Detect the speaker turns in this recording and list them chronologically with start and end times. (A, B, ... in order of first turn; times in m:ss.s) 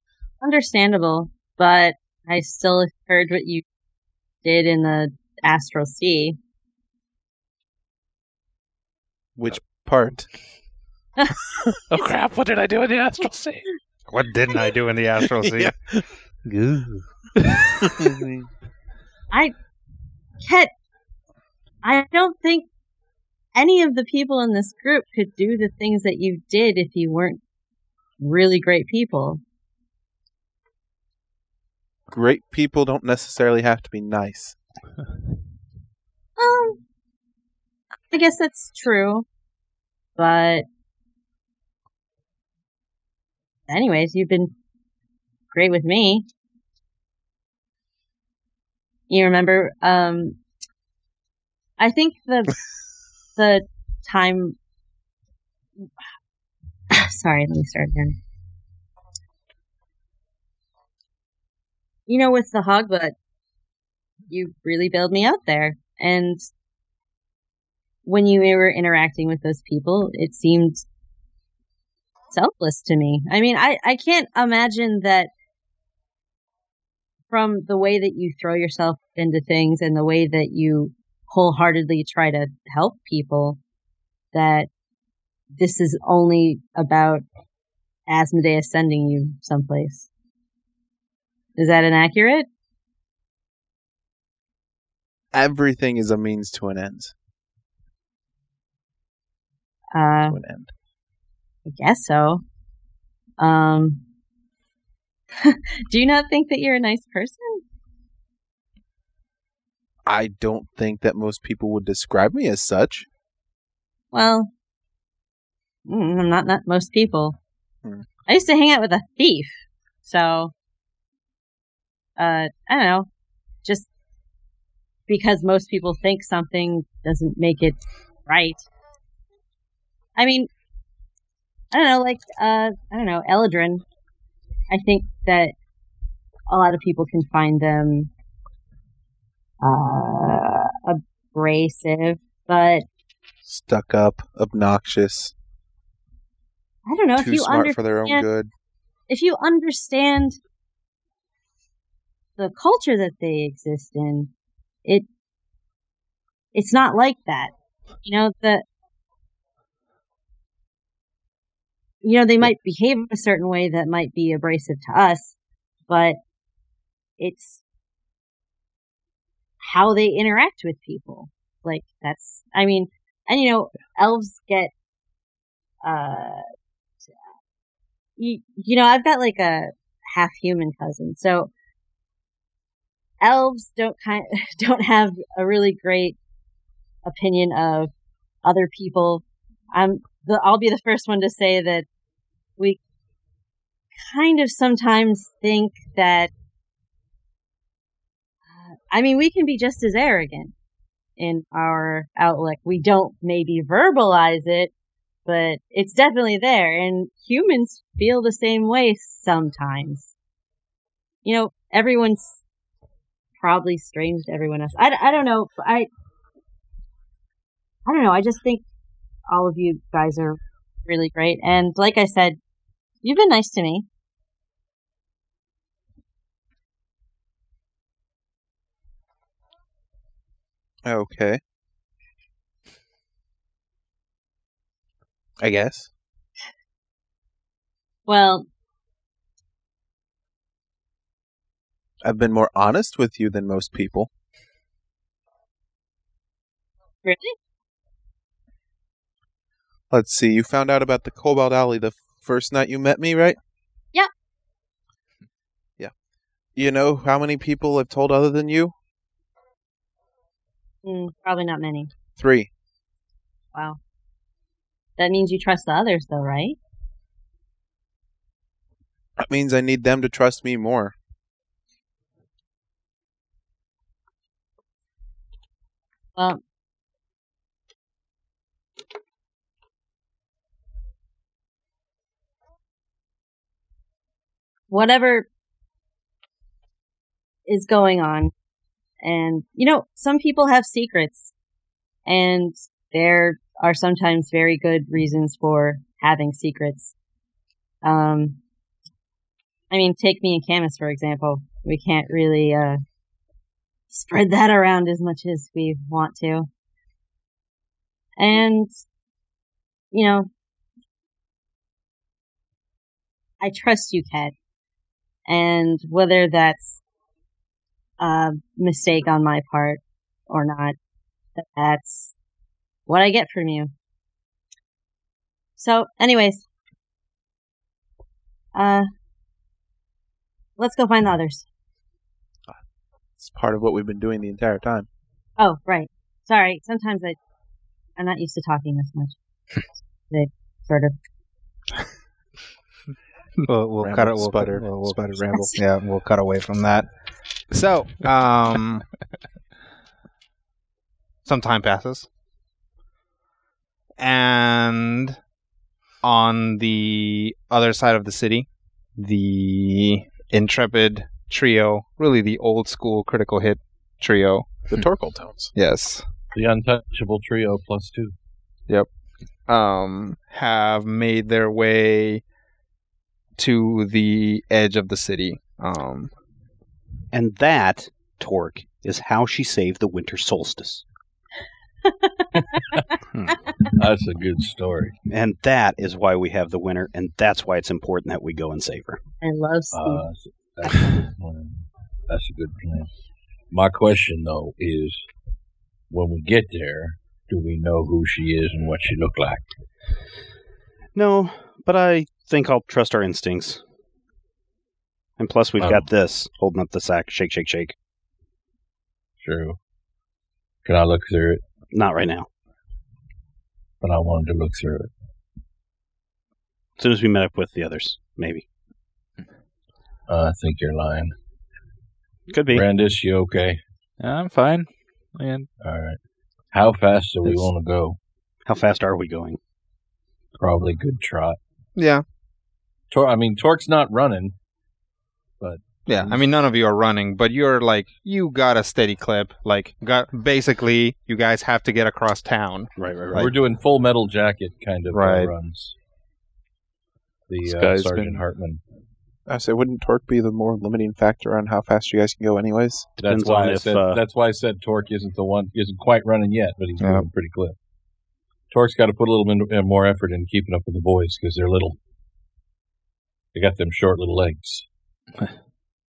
0:00.4-0:03.6 A
0:04.4-0:06.4 A
0:09.4-0:10.3 B
0:11.9-0:13.6 C
0:14.1-0:15.7 D
0:17.8-0:18.5 B
0:20.4-0:20.7 A
0:21.8-0:22.7 A
0:23.6-0:27.4 A
0:28.2-0:29.4 A
0:32.1-0:34.6 B
0:36.4-0:36.8 A
0:38.1-0:39.3 A
0:40.2-0:40.7 A
0:43.7-0:44.5 A
0:45.5-0:46.3 A
0:49.1-0:50.4 A
0:51.8-0:52.6 A
0:53.4-0:54.6 A
0:56.9-0:58.2 A
1:02.1-1:03.1 A
1:04.3-1:06.4 A
1:08.0-1:10.8 A
1:12.3-1:15.3 A
1:17.3-1:23.6 A
1:24.3-1:24.7 A
1:25.6-1:27.2 A
1:28.1-1:30.1 A
1:31.6-1:32.5 A
1:35.3-1:37.1 B
1:39.9-1:40.4 A
1:40.3-1:40.7 B
1:41.7-1:42.4 A
1:43.4-1:44.0 A
1:45.4-1:47.6 A
1:50.1-1:53.1 B
1:54.1-1:54.5 A
1:55.9-1:57.4 A
1:58.3-1:59.5 A
2:00.0-2:00.5 A
2:02.2-2:03.1 A
2:05.1-2:08.7 A
2:10.2-2:10.5 A
2:11.7-2:13.8 A
2:14.7-2:15.5 A
2:16.5-2:18.1 A
2:19.6-2:22.8 A
2:23.4-2:25.3 B
2:26.9-2:28.3 A
2:27.2-2:28.5 B
2:29.1-2:30.4 A
2:32.4-2:34.3 A
2:36.5-2:37.5 A
2:38.0-2:38.6 A
2:42.0-2:45.4 A
2:45.9-2:46.2 A
2:47.2-2:47.6 A
2:49.6-2:54.7 A
2:55.8-2:56.4 A
2:58.2-3:01.5 A
3:03.2-3:06.2 A
3:07.0-3:07.9 A
3:08.4-3:11.9 A
3:14.0-3:16.3 A
3:18.6-3:20.5 A
3:21.2-3:24.7 A
3:25.3-3:30.1 A
3:31.2-3:32.4 A
3:33.4-3:35.9 A
3:37.9-3:38.6 A
3:39.3-3:42.4 A
3:43.0-3:43.9 A
3:50.8-3:51.4 B
3:55.4-3:55.9 B
3:58.1-3:58.5 A
4:02.0-4:04.1 B
4:07.0-4:07.4 A
4:09.9-4:13.4 B
4:16.6-4:18.7 B
4:20.8-4:21.9 A
4:22.2-4:22.5 B
4:25.0-4:26.6 A
4:29.2-4:31.0 B
4:36.2-4:36.4 A
4:44.7-4:45.3 A
4:47.5-4:48.3 A
4:49.0-4:51.3 A
4:52.1-4:56.9 A
4:57.8-4:58.4 A
4:59.7-5:02.8 A
5:03.9-5:06.5 A
5:08.2-5:08.7 A
5:09.9-5:10.3 A
5:13.4-5:14.3 A
5:15.3-5:16.8 A
5:18.0-5:20.8 A
5:21.4-5:22.1 A
5:22.9-5:23.7 A
5:25.6-5:26.4 A
5:28.5-5:28.9 A
5:30.6-5:31.5 A
5:33.2-5:34.9 B
5:35.4-5:37.2 A
5:38.0-5:39.1 A
5:40.1-5:41.0 A
5:43.5-5:46.9 D
5:43.8-5:45.4 B
5:47.5-5:48.8 D
5:51.2-5:52.1 D
5:54.0-5:55.2 D
5:56.0-6:04.6 D
6:04.7-6:05.5 B
6:05.6-6:06.0 D
6:06.3-6:08.2 E
6:09.5-6:12.2 D
6:13.4-6:16.1 D
6:17.1-6:20.8 F
6:21.8-6:22.8 A
6:23.8-6:25.0 E
6:25.1-6:29.0 F
6:29.2-6:30.0 A
6:29.7-6:32.9 E
6:33.5-6:35.0 E
6:35.9-6:39.5 E
6:41.0-6:43.6 F
6:45.2-6:47.8 F
6:49.2-6:49.6 E
6:50.6-6:51.4 E
6:51.7-6:52.3 F
6:53.8-6:54.9 E
6:56.8-6:58.4 F
7:00.1-7:01.1 E
7:02.3-7:02.6 F
7:02.5-7:03.6 E
7:04.0-7:05.5 C
7:05.6-7:06.0 E
7:06.5-7:08.0 E
7:08.5-7:09.4 F
7:10.4-7:11.4 E
7:11.8-7:12.0 D
7:12.9-7:14.4 E
7:15.4-7:16.2 E
7:15.9-7:22.7 D
7:22.8-7:23.3 F
7:23.1-7:25.8 E
7:24.9-7:25.3 D
7:27.3-7:28.6 E
7:27.4-7:28.2 C
7:29.3-7:32.9 B
7:33.0-7:37.6 E
7:33.0-7:34.0 F
7:36.8-7:37.1 D
7:38.5-7:41.8 E
7:43.3-7:44.6 E